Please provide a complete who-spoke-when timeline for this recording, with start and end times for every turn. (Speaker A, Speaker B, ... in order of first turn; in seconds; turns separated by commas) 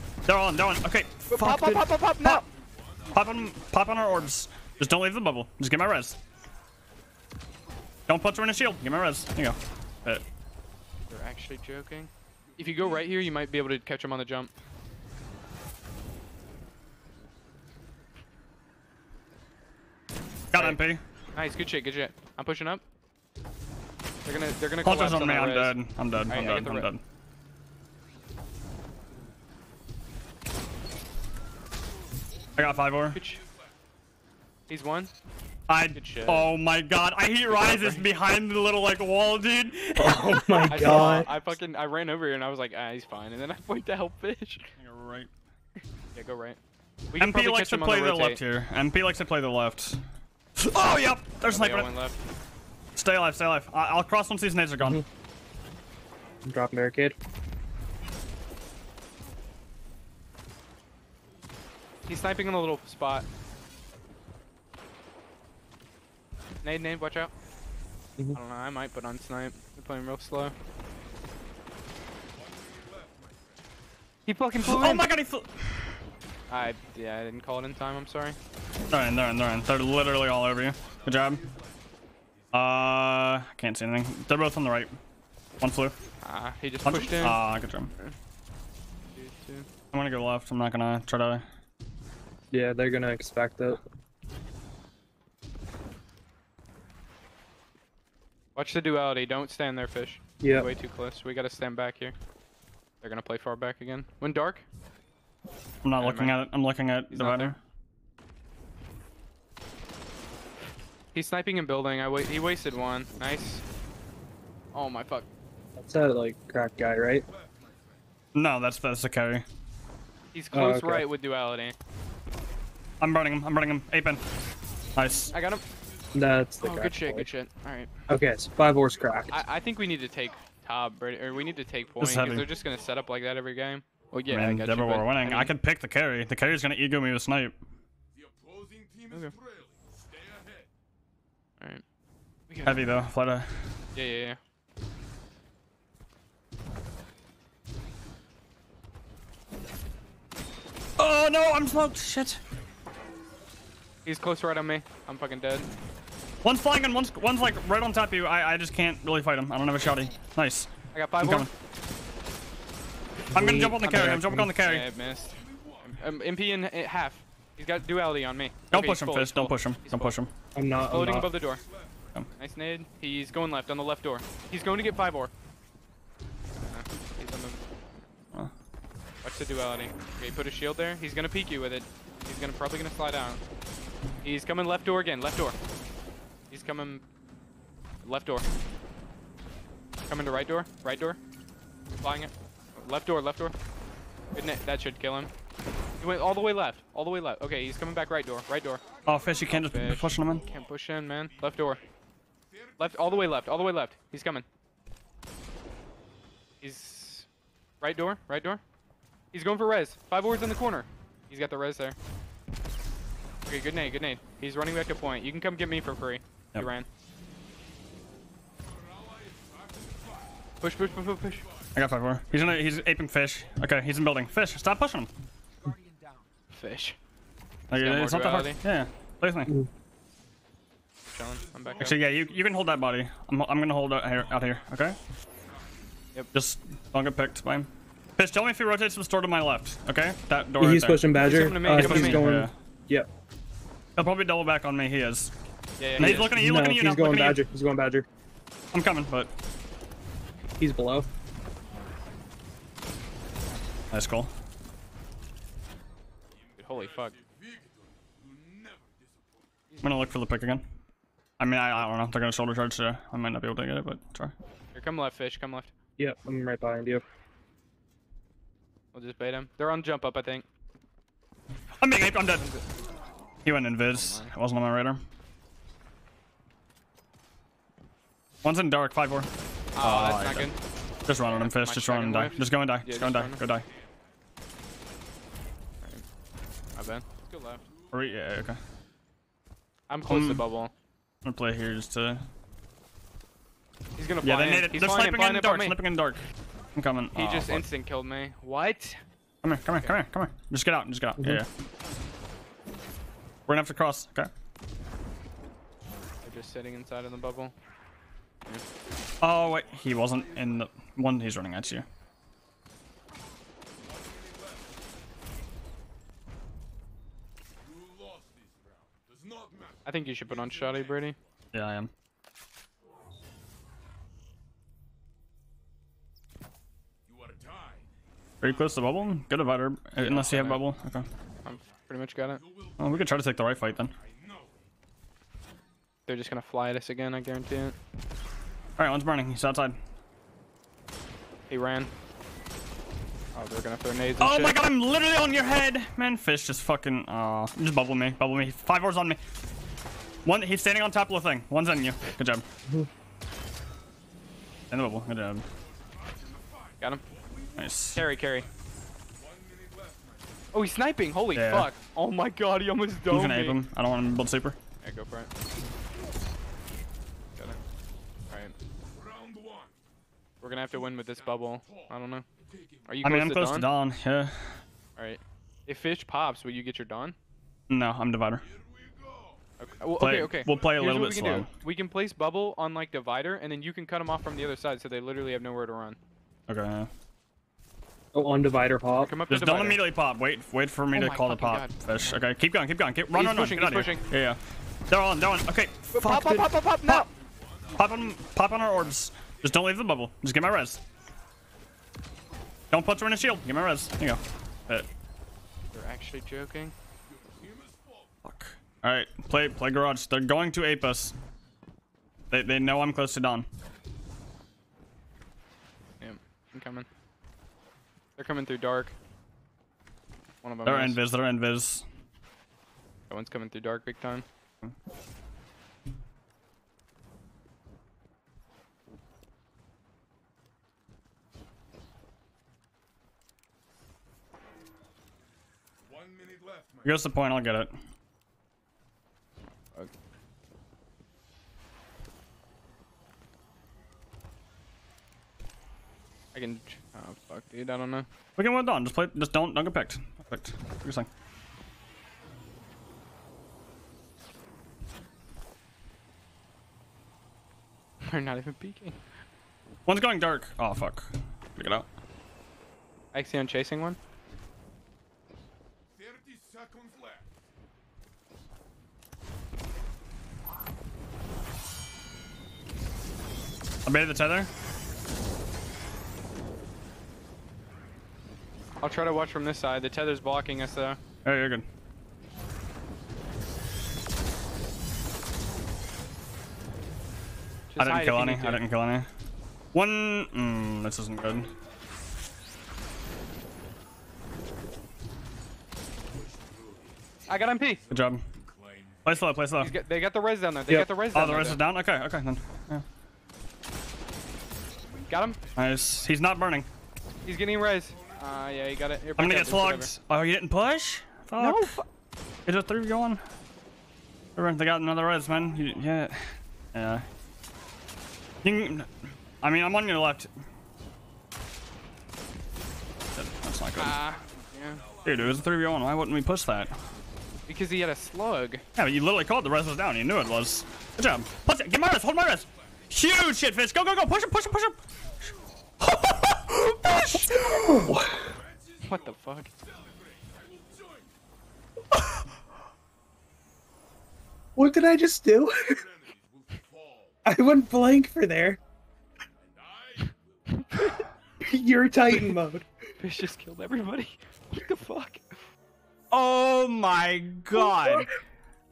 Speaker A: 0.2-2.4, Speaker B: 1.3-2.5, Speaker A: 3.1-6.2, Speaker A: 8.1-10.2, Speaker B: 11.1-14.5, Speaker A: 20.5-21.0, Speaker B: 20.5-20.8, Speaker B: 21.4-22.8, Speaker B: 24.2-26.9, Speaker A: 24.8-27.0, Speaker A: 32.6-33.2, Speaker B: 33.1-33.4, Speaker B: 34.7-35.1, Speaker A: 35.7-41.3, Speaker B: 35.9-36.5, Speaker B: 37.5-38.0, Speaker C: 40.0-41.3, Speaker B: 40.7-44.7, Speaker A: 44.8-45.3, Speaker B: 46.1-46.6, Speaker B: 47.1-48.4, Speaker A: 47.2-50.0, Speaker A: 50.6-51.9, Speaker B: 51.4-52.2, Speaker A: 53.0-55.0, Speaker C: 56.5-57.1, Speaker B: 62.1-63.2, Speaker B: 66.6-67.3, Speaker B: 68.3-70.5, Speaker D: 72.4-73.3, Speaker B: 74.3-75.0, Speaker A: 74.6-76.0, Speaker B: 76.5-78.4, Speaker A: 78.9-81.5, Speaker A: 82.5-84.9, Speaker A: 85.6-86.0, Speaker B: 86.2-87.4, Speaker A: 86.8-87.9, Speaker B: 89.1-89.7, Speaker A: 89.9-91.4, Speaker C: 92.5-93.8, Speaker B: 98.5-102.1, Speaker C: 100.4-100.7, Speaker B: 103.0-104.6, Speaker A: 105.8-107.6, Speaker B: 106.0-106.4, Speaker B: 107.1-107.5, Speaker B: 111.1-113.6, Speaker B: 114.7-115.3, Speaker C: 115.8-117.2, Speaker A: 118.3-119.4, Speaker B: 120.3-121.7, Speaker C: 120.5-121.0, Speaker A: 123.0-124.2, Speaker A: 124.9-125.3, Speaker B: 125.3-125.6, Speaker C: 126.1-127.3, Speaker B: 126.6-127.9, Speaker C: 128.1-129.4, Speaker B: 129.3-135.5, Speaker A: 132.0-132.5, Speaker A: 134.3-137.6, Speaker D: 138.3-139.7, Speaker D: 140.2-140.6, Speaker B: 142.5-143.0, Speaker A: 142.6-143.7, Speaker B: 143.9-144.4, Speaker A: 151.0-152.4, Speaker B: 154.0-155.7, Speaker A: 156.4-161.5, Speaker B: 160.9-161.5, Speaker C: 163.3-164.5, Speaker A: 163.3-164.8, Speaker B: 163.9-170.1, Speaker A: 168.7-170.3, Speaker C: 170.5-171.3, Speaker B: 170.9-171.7, Speaker B: 172.3-175.3, Speaker B: 176.6-177.6, Speaker B: 179.2-183.4, Speaker B: 184.2-185.6, Speaker B: 186.5-187.0, Speaker B: 188.0-188.5, Speaker B: 190.1-191.2, Speaker B: 192.0-193.6, Speaker B: 194.3-195.3, Speaker B: 196.0-201.8, Speaker A: 199.0-200.5, Speaker B: 202.8-204.4, Speaker B: 206.6-207.3, Speaker B: 207.8-208.6, Speaker B: 209.3-212.0, Speaker B: 213.4-216.9, Speaker D: 219.0-219.9, Speaker B: 220.6-221.5, Speaker A: 221.7-225.1, Speaker B: 226.5-227.0, Speaker A: 227.7-229.6, Speaker B: 227.7-228.6, Speaker B: 231.1-231.9, Speaker A: 231.8-235.0, Speaker A: 236.3-241.2, Speaker C: 240.6-243.1, Speaker B: 241.1-242.3, Speaker A: 241.7-242.5, Speaker A: 243.9-245.3, Speaker B: 245.8-246.3, Speaker A: 246.0-247.4, Speaker C: 246.1-248.1, Speaker A: 248.7-249.3, Speaker C: 250.6-251.1, Speaker A: 253.9-254.3, Speaker B: 256.6-257.2, Speaker D: 257.3-257.6, Speaker D: 258.3-258.8, Speaker A: 259.8-260.6, Speaker A: 261.4-264.3, Speaker B: 264.7-265.7, Speaker C: 266.0-267.0, Speaker B: 268.9-270.4, Speaker A: 271.8-272.4, Speaker B: 272.4-272.6, Speaker A: 273.4-275.0, Speaker B: 273.9-274.3, Speaker A: 278.4-279.3, Speaker B: 279.8-280.6, Speaker A: 279.8-280.5, Speaker A: 281.1-283.7, Speaker B: 281.2-283.4, Speaker B: 286.8-287.7, Speaker A: 287.9-288.6, Speaker B: 289.9-290.7, Speaker A: 290.1-290.4, Speaker A: 291.2-292.2, Speaker B: 294.0-295.8, Speaker A: 294.2-296.2, Speaker A: 296.7-297.6, Speaker B: 297.1-299.0, Speaker A: 299.4-301.5, Speaker B: 299.7-299.9, Speaker A: 303.5-304.3, Speaker B: 306.2-307.5, Speaker A: 309.2-311.9, Speaker D: 317.7-318.5, Speaker D: 319.1-319.8, Speaker B: 319.9-321.1, Speaker A: 321.5-321.9, Speaker D: 327.1-327.8, Speaker A: 328.4-331.1, Speaker B: 330.0-330.6, Speaker B: 331.4-332.4, Speaker A: 332.8-333.9, Speaker B: 336.1-337.7, Speaker A: 338.8-339.8, Speaker B: 341.5-341.9, Speaker B: 343.3-344.6, Speaker A: 344.2-349.2, Speaker A: 350.2-352.4, Speaker A: 354.7-355.4, Speaker A: 357.6-358.0, Speaker B: 357.9-358.5, Speaker D: 359.2-360.0, Speaker B: 360.5-363.6, Speaker A: 361.3-361.7, Speaker A: 363.1-364.6, Speaker B: 364.8-365.3, Speaker D: 369.0-369.7, Speaker B: 370.4-372.2, Speaker B: 372.9-373.7, Speaker A: 373.0-374.6, Speaker B: 375.0-377.1, Speaker A: 377.7-378.4, Speaker D: 378.6-379.3, Speaker B: 379.6-386.0, Speaker A: 380.0-381.5, Speaker A: 386.5-386.9, Speaker C: 388.1-389.1, Speaker B: 389.0-389.8, Speaker A: 389.3-394.4, Speaker B: 390.9-392.2, Speaker B: 393.1-394.1, Speaker A: 394.9-397.1, Speaker B: 395.9-397.1, Speaker A: 397.7-400.8, Speaker A: 402.7-404.9, Speaker B: 405.7-406.7, Speaker D: 407.4-407.8, Speaker A: 408.2-411.1, Speaker A: 412.3-413.5, Speaker B: 416.0-416.9, Speaker B: 418.2-418.9, Speaker B: 420.4-421.0, Speaker A: 420.6-421.8, Speaker B: 423.1-424.2, Speaker D: 435.9-436.7, Speaker A: 436.8-437.7, Speaker B: 446.3-448.1, Speaker A: 448.4-451.1, Speaker B: 458.0-459.0, Speaker A: 459.9-461.9, Speaker B: 463.1-464.0, Speaker D: 466.1-467.2, Speaker A: 473.8-474.5, Speaker B: 478.8-481.0, Speaker A: 481.2-481.6, Speaker B: 487.7-488.6, Speaker A: 487.8-489.1, Speaker A: 489.7-491.5, Speaker B: 497.3-497.9, Speaker A: 497.9-498.2, Speaker A: 499.0-499.7, Speaker B: 499.6-501.6, Speaker A: 501.0-502.8, Speaker B: 505.1-505.4, Speaker A: 505.5-506.7, Speaker B: 507.2-509.9, Speaker A: 509.2-511.7, Speaker B: 511.4-511.8, Speaker A: 512.5-513.2, Speaker A: 514.4-517.0, Speaker A: 518.4-518.9, Speaker A: 519.4-520.3, Speaker A: 523.1-524.0, Speaker B: 523.8-524.9, Speaker A: 525.0-526.7, Speaker B: 527.5-528.6, Speaker A: 528.8-534.8, Speaker A: 535.8-537.8, Speaker B: 537.0-537.5, Speaker C: 537.3-538.3, Speaker B: 538.8-539.5, Speaker D: 540.0-540.9, Speaker C: 544.5-545.9, Speaker D: 546.0-546.9, Speaker C: 547.2-548.6, Speaker B: 550.5-551.0, Speaker C: 551.4-552.7, Speaker B: 553.0-555.4, Speaker A: 556.1-558.1, Speaker C: 557.7-558.0